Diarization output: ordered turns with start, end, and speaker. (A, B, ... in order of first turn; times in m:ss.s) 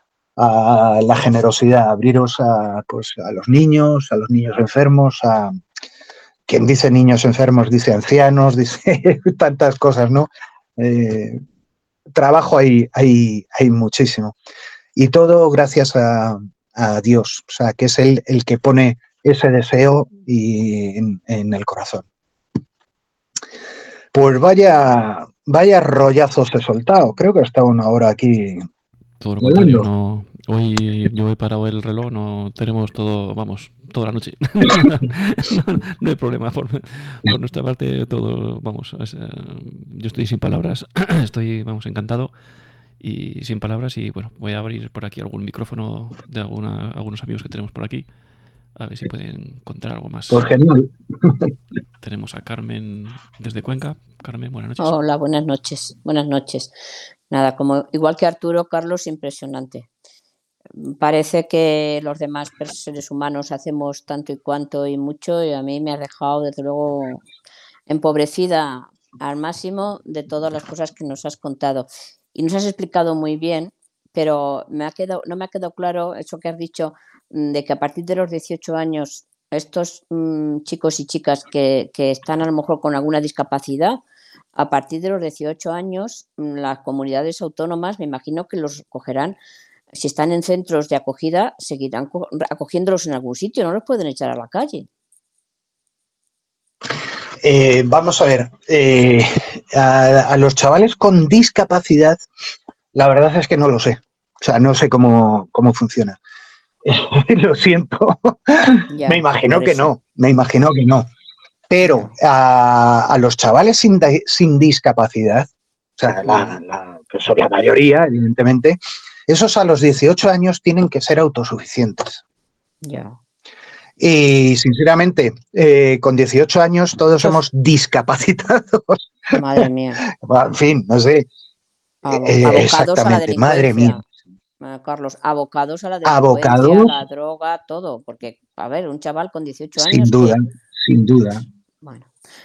0:00.4-0:05.5 A
0:06.5-0:11.4 A
0:12.1-0:14.4 A
0:15.0-0:22.0 A
0:24.1-0:28.7 A
0:29.2-0:42.3 B
0:29.4-0:29.9 A
0:43.0-0:48.1 B
0:48.8-0:50.5 B
0:50.3-0:51.5 A
0:52.0-0:55.0 B
0:54.8-0:56.7 C
0:57.3-0:59.9 C
1:00.8-1:07.2 C
1:07.9-1:24.0 C
1:24.6-1:29.4 C
1:29.9-1:34.9 C
1:37.4-1:42.2 A
1:42.9-1:46.2 A
1:46.8-1:51.1 A
1:48.9-1:49.9 C
1:51.7-2:02.2 A
1:56.3-1:56.6 C
2:02.8-2:03.2 C
2:04.0-2:11.3 A
2:09.3-2:10.0 C
2:12.0-2:14.0 C
2:12.1-2:14.0 A
2:14.6-2:20.4 C
2:16.0-2:17.0 A
2:19.8-2:21.4 A
2:21.8-2:22.1 C